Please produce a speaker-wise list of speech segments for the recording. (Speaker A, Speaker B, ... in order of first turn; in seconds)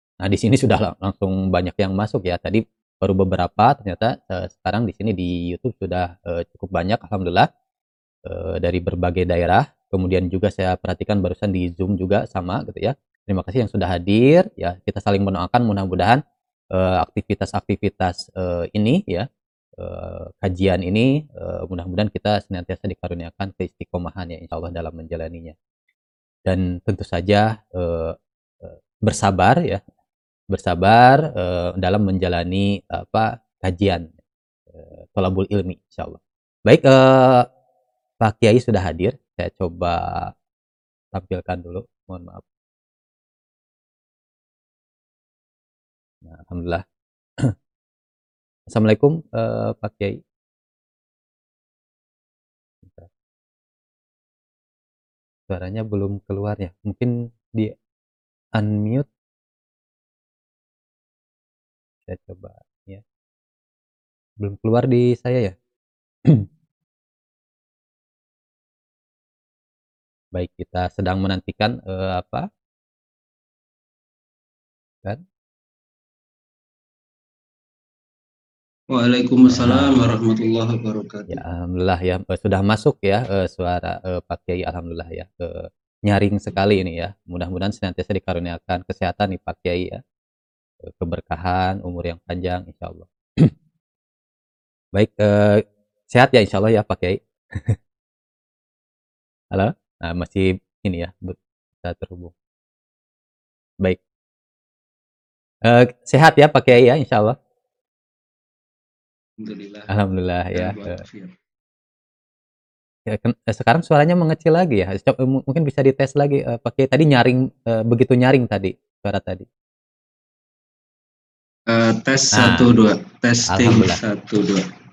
Speaker A: 0.2-7.5, 8.2-16.2, 16.7-19.3, 19.8-25.5, 26.4-29.8, 30.5-34.1, 34.7-37.5, 38.2-40.3, 41.1-42.4, 46.2-46.8, 48.7-50.2, 52.8-53.1, 55.5-57.8, 58.5-59.1, 62.0-63.0, 64.4-65.5, 70.3-72.5, 79.5-80.0, 81.3-90.0, 90.8-93.5, 94.9-97.8, 99.5-102.3, 105.6-107.3, 109.9-111.0, 113.0-119.5, 122.3-122.7, 123.5-124.0
Speaker B: 78.9-81.4, 109.4-109.9, 110.5-111.3, 121.7-124.7